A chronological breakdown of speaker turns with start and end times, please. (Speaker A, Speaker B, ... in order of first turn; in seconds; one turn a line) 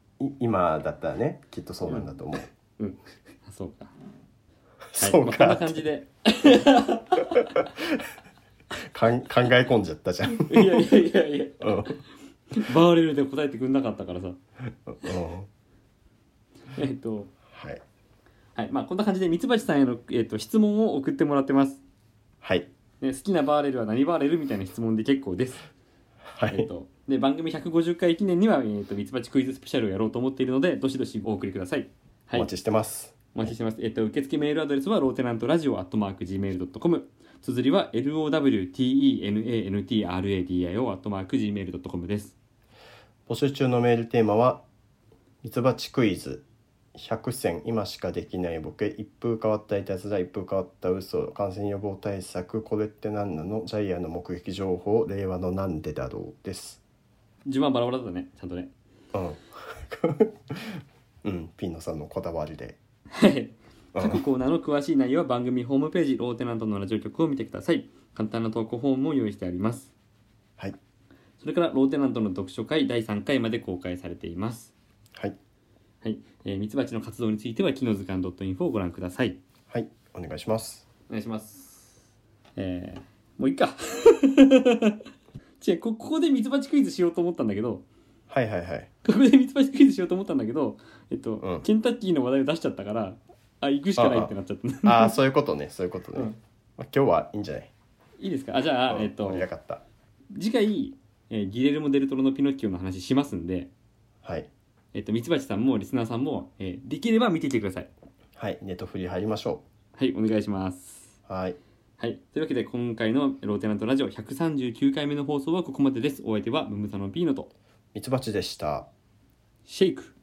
Speaker A: 0.2-2.5
Speaker B: 2.8-3.9
Speaker A: 4.9-5.8
Speaker B: 5.0-7.7
Speaker A: 7.4-8.1
Speaker A: 8.8-10.9
Speaker B: 10.2-12.0
Speaker A: 11.6-12.0
Speaker B: 12.5-14.4
Speaker A: 14.9-15.5
Speaker B: 16.7-17.3
Speaker A: 17.5-17.8
Speaker B: 18.6-21.8
Speaker A: 22.4-22.7
Speaker B: 23.0-25.6
Speaker A: 26.3-26.7
Speaker B: 26.5-32.5
Speaker A: 32.3-33.5
Speaker B: 33.3-42.4
Speaker A: 43.3-44.6
Speaker A: 45.4-46.4
Speaker A: 47.0-56.8
Speaker B: 57.5-58.7
Speaker A: 59.1-62.8
Speaker B: 63.1-69.9
Speaker A: 64.0-64.2
Speaker B: 71.4-74.7
Speaker B: 76.0-79.4
Speaker A: 79.7-80.9
Speaker B: 81.1-81.9
Speaker B: 82.6-85.0
Speaker B: 85.6-87.8
Speaker A: 88.3-88.9
Speaker B: 89.0-95.2
Speaker A: 91.4-91.7
Speaker A: 94.0-94.3
Speaker A: 94.8-97.7
Speaker B: 98.2-99.5
Speaker A: 98.9-99.8
Speaker B: 100.3-103.7
Speaker A: 104.2-104.5
Speaker B: 104.9-107.9
Speaker A: 108.4-109.6
Speaker B: 110.0-111.2
Speaker A: 111.3-111.6
Speaker B: 112.0-117.5
Speaker A: 118.0-118.9
Speaker B: 119.7-120.1